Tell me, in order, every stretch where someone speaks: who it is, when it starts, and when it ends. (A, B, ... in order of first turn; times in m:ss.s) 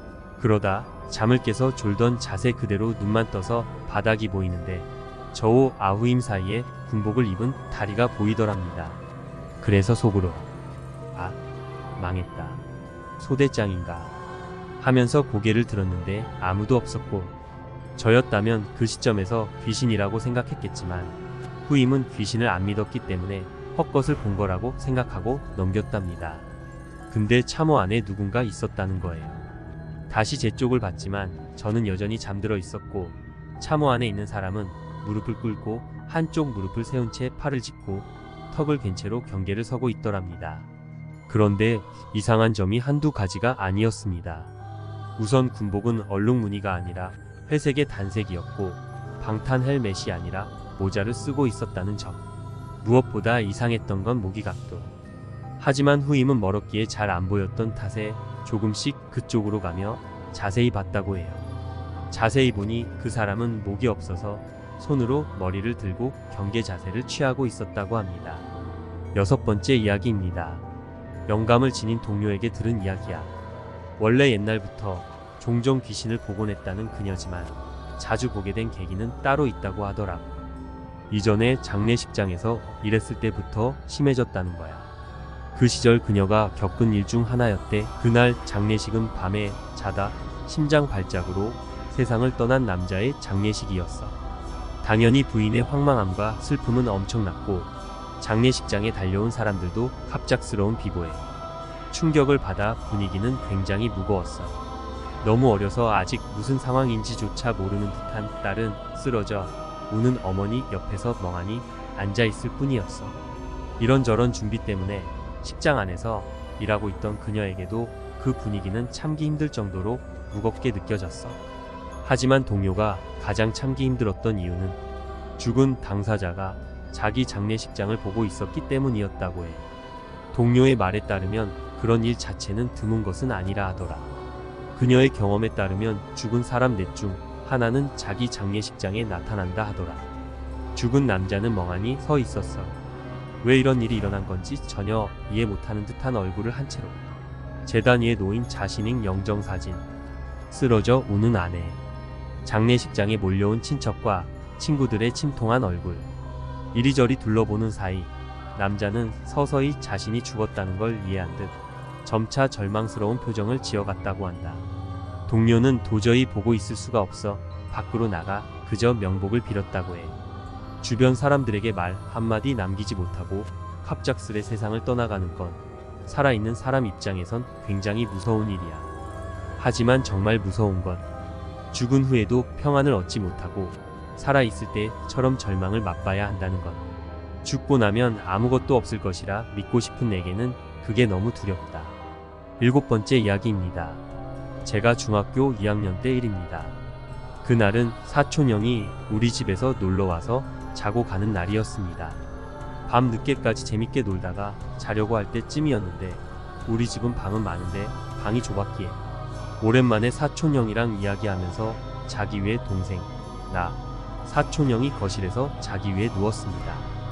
0:00.4-0:09.0 A
0:09.6-0:10.5 A
0:12.0-0:12.6 A
0:13.2-0:14.1 A
0:14.8-0:17.4 A
0:18.0-0:26.5 A
0:27.1-0:29.4 A
0:30.1-0:40.7 A
0:41.3-0:44.5 A
0:45.2-0:52.2 A
0:52.8-0:54.9 A
0:55.6-1:01.4 A
1:02.1-1:08.5 A
1:09.1-1:10.6 A
1:11.3-1:13.3 A
1:14.0-1:20.3 A
1:21.1-1:24.9 A
1:25.6-1:34.2 A
1:34.8-1:41.3 A
1:41.9-1:44.6 A
1:45.2-1:53.2 A
1:53.8-2:01.4 A
2:02.0-2:04.8 A
2:05.4-2:09.6 A
2:10.3-2:14.1 A
2:14.8-2:20.1 A
2:20.8-2:22.8 A
2:23.4-2:27.0 A
2:27.6-2:29.8 A
2:30.5-2:31.8 A
2:32.4-2:36.1 A
2:36.7-2:44.7 A
2:45.3-2:50.2 A
2:50.8-2:58.9 A
2:59.6-3:01.0 A
3:01.7-3:06.9 A
3:07.4-3:12.0 A
3:12.6-3:14.0 A
3:14.6-3:16.8 A
3:17.4-3:22.2 A
3:22.9-3:29.0 A
3:29.6-3:36.9 A